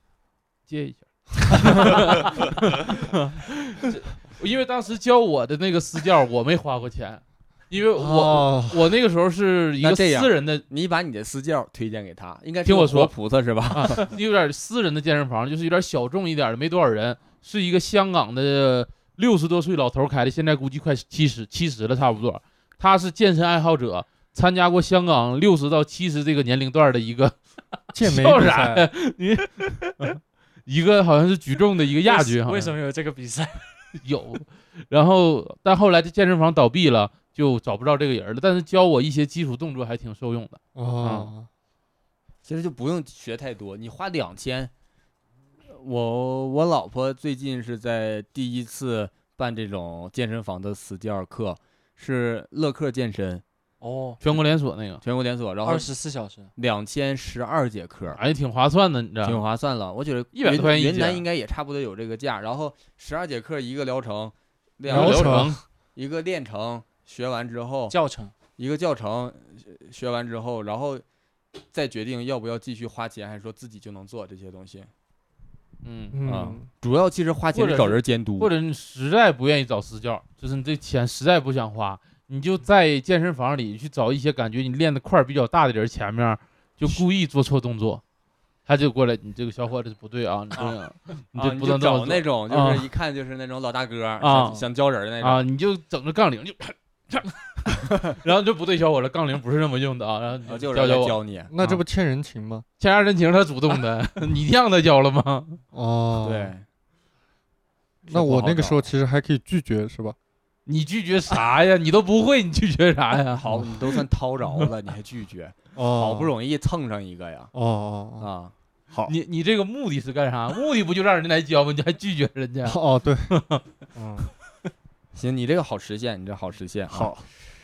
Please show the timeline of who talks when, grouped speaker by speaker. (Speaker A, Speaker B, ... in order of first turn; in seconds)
Speaker A: 0.7-10.6, 12.6-13.1, 13.7-27.4, 28.0-32.7, 34.0-41.3, 54.2-55.0, 58.1-59.4, 60.3-61.2, 64.9-65.6, 75.8-76.2, 77.5-88.0, 88.7-92.9, 94.2-94.6, 95.2-101.8, 102.8-105.6, 110.7-113.9, 119.0-122.8, 123.3-123.6
Speaker B: 8.0-8.8, 27.9-28.9, 40.7-41.5, 64.9-65.6, 76.1-76.7, 101.5-102.6, 105.7-106.5, 108.0-110.2, 115.7-116.3, 117.5-118.3, 122.6-123.3, 123.9-124.3, 126.9-127.3
Speaker C: 9.8-14.1, 42.4-44.7, 45.7-53.4, 55.0-55.9, 56.5-58.2, 59.2-67.9, 68.6-71.0, 71.7-74.9, 76.2-78.5, 91.3-95.4, 97.8-98.1, 100.5-101.5, 106.2-106.6, 108.1-108.9, 113.3-117.5, 118.2-118.5, 125.1-127.2
Speaker D: 32.0-33.7, 53.8-54.2, 55.6-56.5, 67.9-68.3